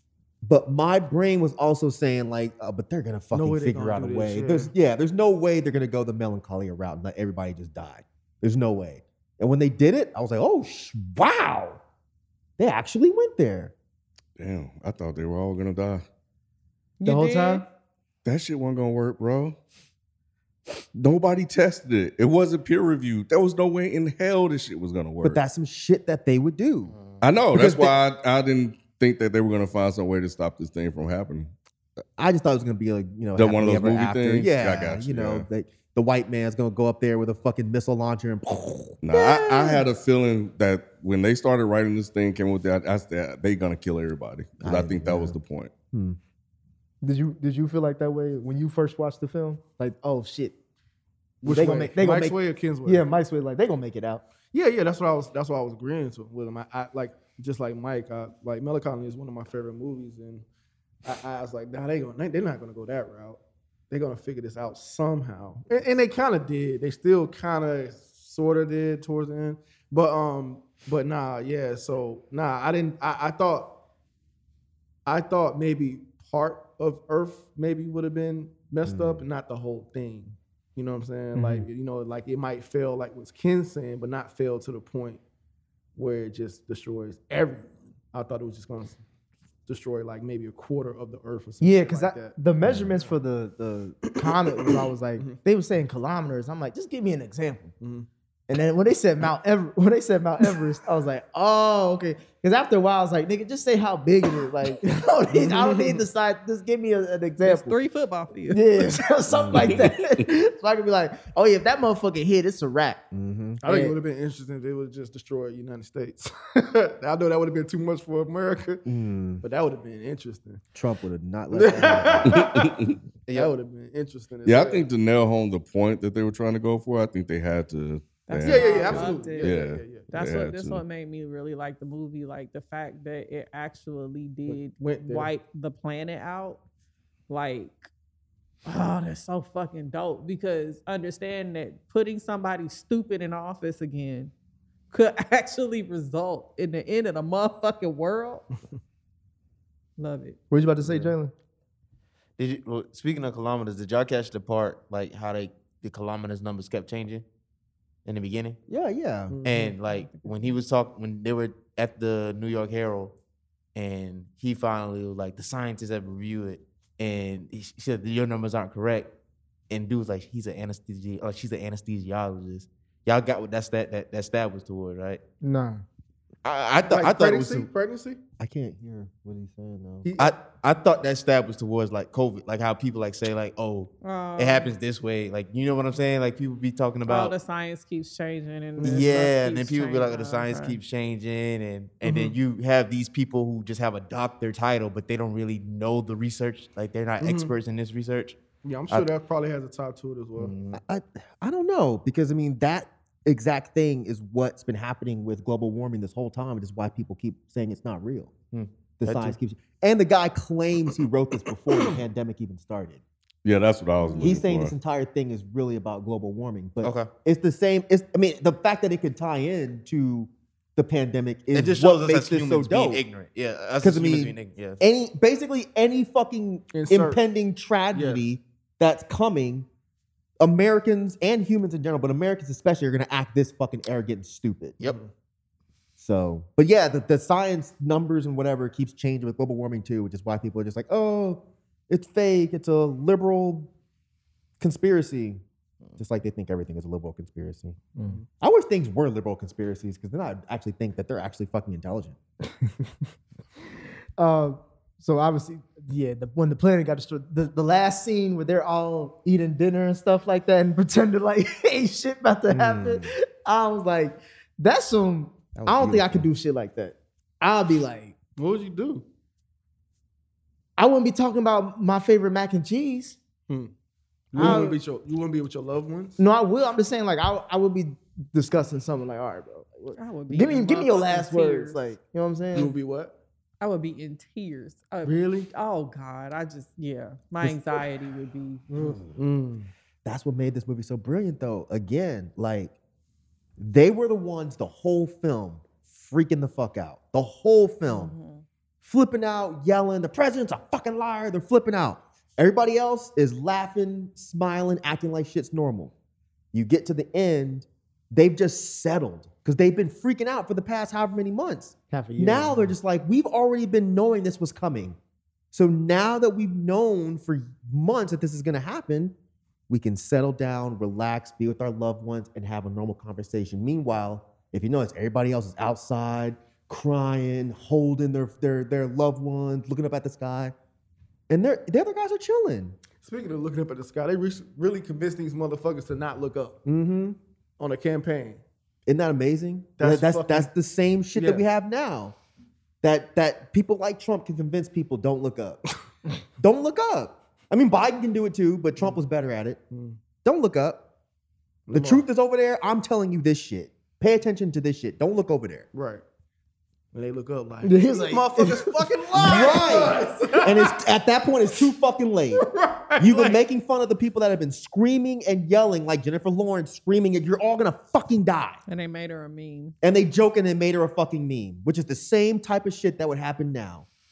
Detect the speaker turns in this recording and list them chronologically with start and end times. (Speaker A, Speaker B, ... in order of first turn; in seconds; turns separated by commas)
Speaker A: 0.4-11.8, Speaker B: 3.3-4.7, Speaker A: 12.6-13.7, Speaker C: 14.4-16.0, Speaker D: 17.0-17.6, Speaker E: 17.1-17.6, Speaker C: 18.2-19.6, Speaker C: 20.9-25.4, Speaker A: 25.2-26.9, Speaker F: 26.9-27.2, Speaker C: 27.2-31.5, Speaker A: 27.5-27.9, Speaker A: 32.2-39.0, Speaker C: 33.4-35.5, Speaker C: 39.0-45.7, Speaker A: 44.6-45.4, Speaker A: 45.9-46.2, Speaker E: 47.0-50.5, Speaker B: 51.4-53.0, Speaker E: 51.4-54.2, Speaker B: 54.5-60.4, Speaker B: 61.0-73.7, Speaker B: 75.0-85.2, Speaker A: 78.8-79.2, Speaker B: 86.0-89.0, Speaker B: 89.7-92.4, Speaker E: 91.6-97.7, Speaker A: 92.6-92.9, Speaker B: 94.0-95.4, Speaker B: 97.8-98.1, Speaker E: 98.5-107.8, Speaker B: 105.3-106.0, Speaker D: 107.4-108.8, Speaker E: 108.5-113.0, Speaker A: 109.3-109.8, Speaker C: 109.5-109.8, Speaker A: 113.1-113.6, Speaker B: 113.6-118.8, Speaker E: 113.6-114.0, Speaker A: 118.8-119.4, Speaker B: 119.4-120.6, Speaker A: 120.7-122.4, Speaker B: 121.5-122.8, Speaker C: 122.2-122.9, Speaker B: 123.3-124.9, Speaker C: 124.5-130.8, Speaker D: 128.3-136.6, Speaker B: 128.4-130.1, Speaker B: 134.5-135.3, Speaker D: 137.3-137.9, Speaker D: 138.6-144.3, Speaker D: 144.9-148.4, Speaker D: 150.0-150.4, Speaker E: 150.5-151.3, Speaker F: 150.8-151.1, Speaker F: 152.4-157.2, Speaker F: 158.0-158.6, Speaker A: 158.7-159.3, Speaker B: 159.3-159.7, Speaker F: 159.4-163.1, Speaker D: 159.8-160.6, Speaker F: 163.8-169.1, Speaker F: 169.7-175.2, Speaker E: 175.4-175.8, Speaker F: 176.4-177.7, Speaker B: 176.8-178.2, Speaker A: 178.4-180.1, Speaker B: 180.0-180.3, Speaker F: 180.2-187.3, Speaker D: 184.0-184.7, Speaker D: 187.0-190.8, Speaker B: 188.8-189.2, Speaker F: 188.8-199.1, Speaker B: 192.0-192.3, Speaker B: 197.2-197.5, Speaker B: 198.6-200.5, Speaker F: 200.4-200.8, Speaker A: 200.7-208.3, Speaker F: 208.5-209.3, Speaker A: 209.0-213.0, Speaker C: 213.4-214.7, Speaker D: 214.0-214.4, Speaker A: 214.2-223.0, Speaker F: 216.8-217.1, Speaker F: 221.5-224.8, Speaker A: 223.8-229.7, Speaker B: 226.7-227.2, Speaker B: 227.9-228.2, Speaker A: 230.4-234.8, Speaker A: 236.0-243.7, Speaker A: 244.6-245.4, Speaker A: 246.0-252.2, Speaker B: 248.0-248.2, Speaker E: 252.6-252.9, Speaker E: 254.2-268.1, Speaker A: 262.5-263.1, Speaker A: 265.6-266.2, Speaker B: 268.4-269.0, Speaker E: 270.8-273.2, Speaker B: 274.3-276.2, Speaker E: 274.4-274.8, Speaker A: 274.4-274.6, Speaker E: 276.2-282.7, Speaker D: 279.9-281.8, Speaker B: 282.5-283.1, Speaker D: 283.6-288.9, Speaker B: 285.0-285.5, Speaker A: 288.7-289.2, Speaker B: 288.8-289.7, Speaker A: 290.0-292.7, Speaker A: 293.6-298.1, Speaker D: 297.9-298.4, Speaker A: 298.8-305.9, Speaker A: 306.5-315.0, Speaker E: 311.9-312.6, Speaker A: 315.5-319.1, Speaker A: 319.7-330.5, Speaker A: 331.3-332.8, Speaker B: 333.0-338.4, Speaker A: 338.9-342.1, Speaker B: 339.8-340.5, Speaker B: 341.1-341.4, Speaker A: 342.8-345.6, Speaker A: 346.4-349.6, Speaker B: 349.7-350.0, Speaker A: 350.2-350.8, Speaker B: 351.7-352.0, Speaker A: 351.7-355.6, Speaker B: 355.7-356.0, Speaker B: 356.9-360.8, Speaker E: 357.6-358.8, Speaker A: 359.1-368.6, Speaker B: 362.3-363.4, Speaker D: 368.7-369.7, Speaker A: 369.8-373.9